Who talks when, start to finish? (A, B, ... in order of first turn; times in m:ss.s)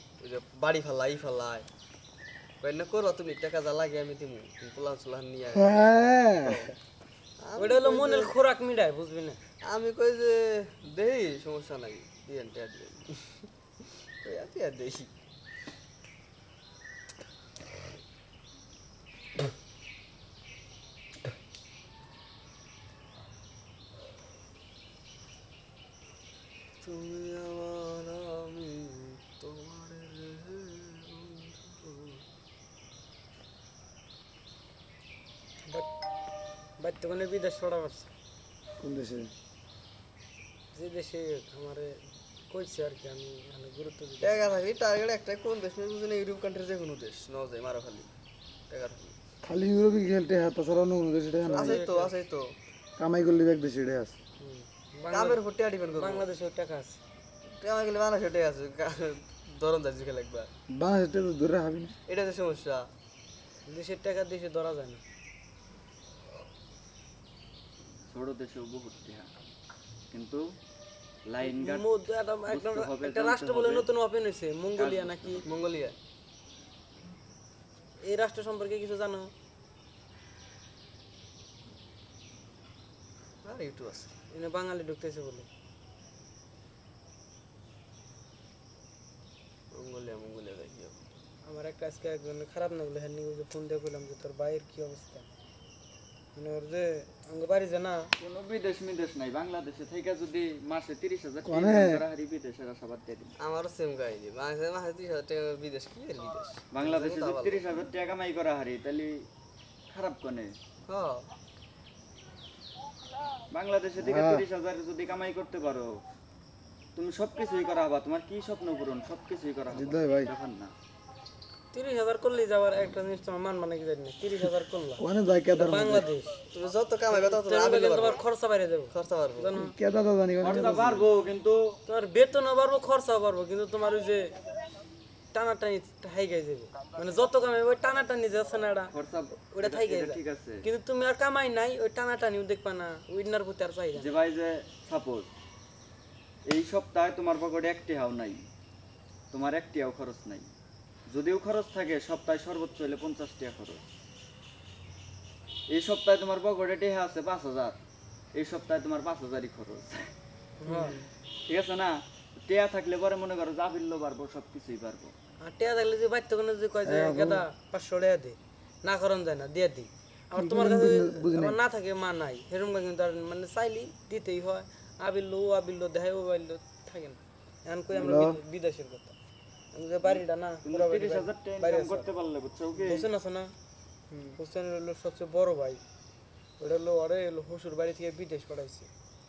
0:00.2-0:01.7 A
0:02.6-0:05.8 A
0:05.5-0:06.7 B
0:06.4-0:06.7 A
0:07.4-0:08.3 A
0:07.6-0:09.4 C
0:09.6-0:13.2 A
0:14.2-0:15.1 A
0:26.8-0:32.2 A
0:36.8-0:38.1 C
0:38.8-0:39.3 B
0:40.7-0:42.0 C
0:42.5-0:44.4 C
0:44.2-0:48.1 A
0:48.7-0:49.2 A
0:49.4-0:51.8 B
0:51.4-0:52.5 A
0:51.6-0:52.1 C
0:53.0-0:54.2 B
0:54.4-0:55.4 C
0:55.1-0:56.2 A
0:56.0-0:57.0 C
0:57.5-1:00.5 A
1:00.7-1:01.9 B
1:02.1-1:02.9 A
1:03.7-1:05.0 C
1:08.1-1:09.3 D
1:10.1-1:10.4 D
1:11.2-1:11.9 D
1:11.4-1:15.5 C
1:12.5-1:13.9 D
1:14.7-1:15.4 D
1:15.4-1:16.0 A
1:18.0-1:19.3 C
1:23.4-1:24.1 A
1:24.3-1:25.5 C
1:29.7-1:31.0 A
1:31.4-1:35.3 C
1:36.3-1:38.1 C
1:38.2-1:43.3 D
1:41.4-1:42.0 B
1:43.4-1:47.7 A
1:46.7-1:49.3 D
1:49.9-1:50.5 D
1:50.9-1:51.3 A
1:53.5-1:56.0 D
1:54.0-1:54.4 B
1:57.0-2:00.7 D
1:59.7-2:00.3 B
2:01.7-2:06.4 C
2:05.0-2:06.1 B
2:06.5-2:08.2 A
2:07.1-2:09.8 C
2:08.9-2:09.5 A
2:09.5-2:11.0 B
2:10.4-2:11.8 D
2:11.9-2:14.3 C
2:15.3-2:24.1 C
2:18.9-2:20.6 D
2:23.9-2:25.3 D
2:26.5-2:28.4 D
2:29.3-2:30.5 D
2:31.1-2:33.8 D
2:35.7-2:37.8 D
2:38.3-2:40.1 D
2:40.6-2:41.0 C
2:41.4-2:45.1 D
2:45.4-2:59.1 C
2:46.8-2:47.4 B
2:50.3-2:51.6 B
2:57.9-2:58.4 B
2:59.7-3:02.1 C
3:00.0-3:03.1 D
3:02.8-3:03.5 C
3:04.3-3:05.8 C
3:06.6-3:08.9 C